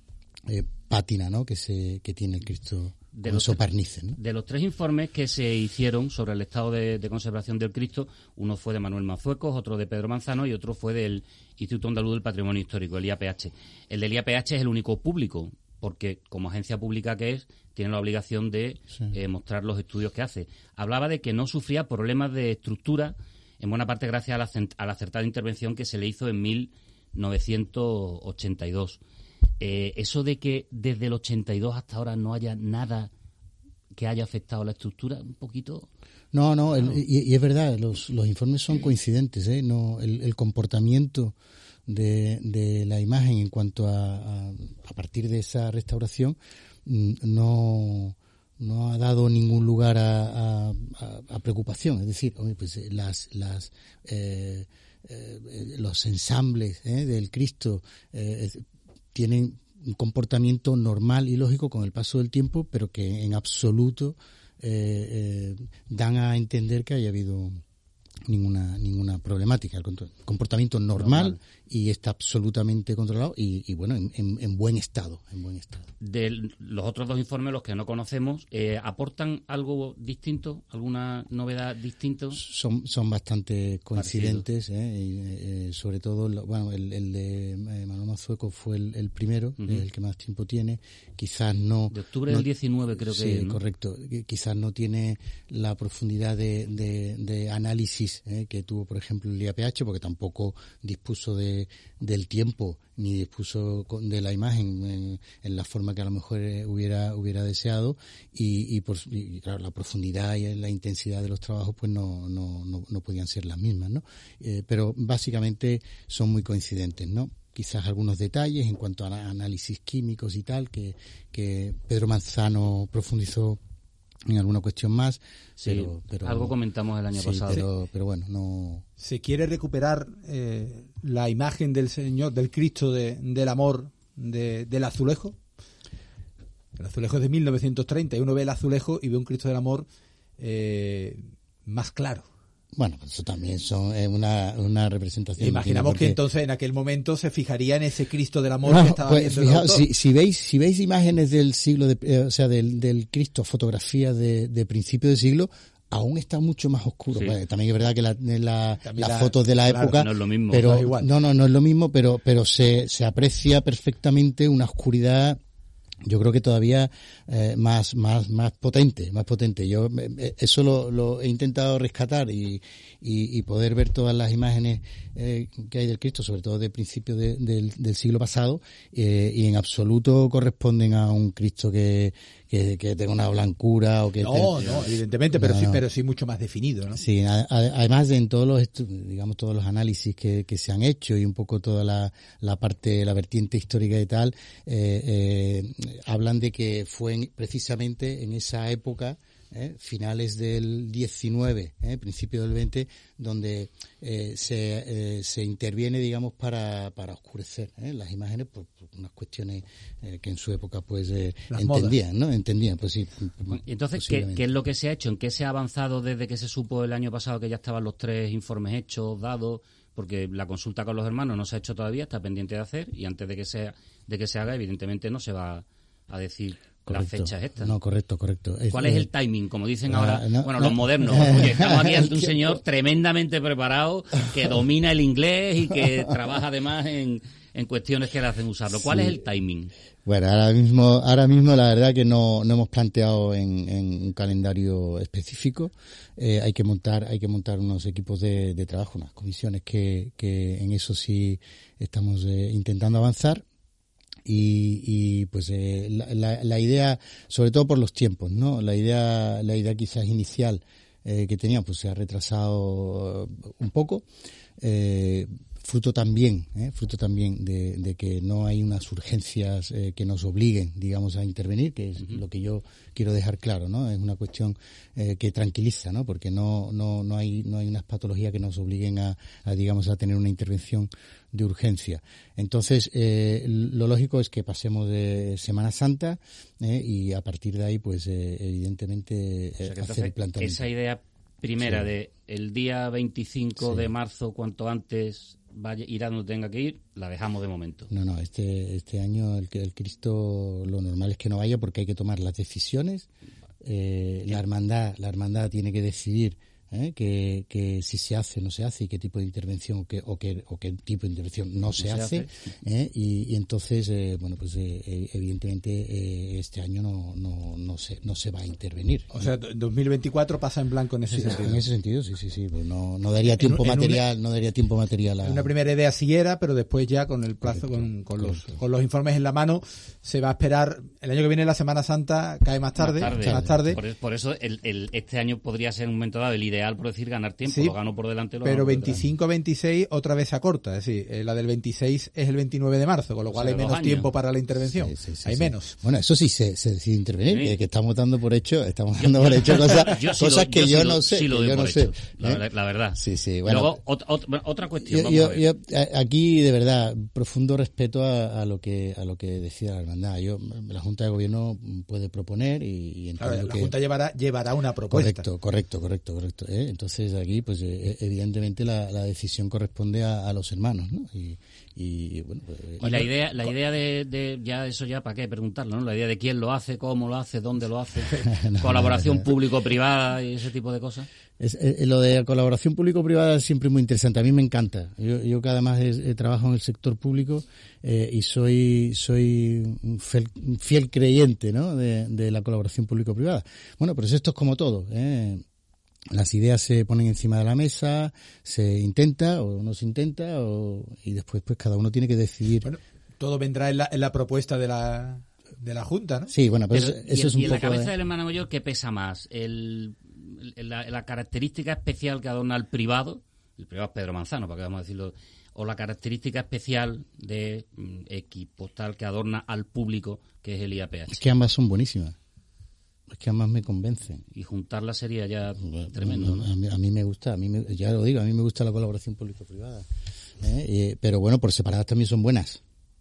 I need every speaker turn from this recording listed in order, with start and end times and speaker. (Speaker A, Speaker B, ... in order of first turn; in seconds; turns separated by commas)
Speaker A: 0.5-4.2, Speaker B: 3.1-3.6, Speaker B: 4.2-29.0, Speaker B: 29.6-33.1, Speaker B: 34.0-35.9, Speaker A: 36.3-41.4, Speaker A: 41.9-67.6, Speaker A: 68.3-75.9, Speaker B: 71.0-71.4, Speaker B: 76.0-82.4, Speaker A: 82.3-123.6, Speaker B: 84.0-84.4, Speaker B: 89.6-89.8, Speaker B: 91.9-93.6, Speaker A: 124.3-126.5, Speaker B: 125.6-127.7, Speaker A: 127.1-128.8, Speaker C: 129.0-135.4, Speaker C: 136.8-139.9, Speaker C: 140.4-142.3, Speaker A: 142.7-146.2, Speaker C: 145.4-149.8, Speaker A: 148.7-165.4, Speaker C: 158.8-160.1, Speaker B: 159.9-160.8, Speaker C: 160.6-161.1, Speaker A: 166.1-185.8, Speaker C: 184.2-187.0, Speaker A: 186.9-214.4, Speaker C: 211.5-211.9, Speaker B: 213.5-227.7, Speaker A: 226.8-229.1, Speaker B: 228.7-239.7, Speaker A: 229.9-232.6, Speaker A: 238.7-239.2, Speaker A: 240.1-253.4, Speaker A: 254.3-264.1, Speaker A: 264.6-290.7, Speaker B: 289.6-297.9, Speaker A: 291.6-291.9, Speaker A: 293.6-293.9, Speaker A: 297.9-303.1, Speaker A: 303.6-319.3, Speaker B: 311.8-312.3, Speaker C: 319.1-321.6, Speaker A: 321.1-325.5, Speaker C: 323.3-324.0, Speaker C: 325.2-333.8, Speaker A: 327.4-328.6, Speaker B: 332.8-339.0, Speaker A: 333.1-333.8, Speaker C: 337.5-337.8, Speaker C: 338.4-345.8, Speaker B: 343.3-344.1, Speaker A: 344.7-352.4, Speaker B: 347.3-347.6, Speaker B: 349.0-355.4, Speaker A: 352.9-353.8, Speaker A: 354.8-363.7, Speaker C: 363.2-365.2, Speaker A: 364.9-373.1, Speaker B: 372.8-381.1, Speaker A: 378.2-379.3, Speaker A: 381.4-395.4, Speaker A: 396.1-402.7, Speaker C: 402.6-406.3, Speaker A: 406.3-407.9, Speaker B: 406.7-421.2, Speaker A: 421.1-422.2, Speaker A: 423.1-424.2, Speaker B: 424.3-426.5, Speaker A: 425.6-429.9, Speaker A: 430.4-432.6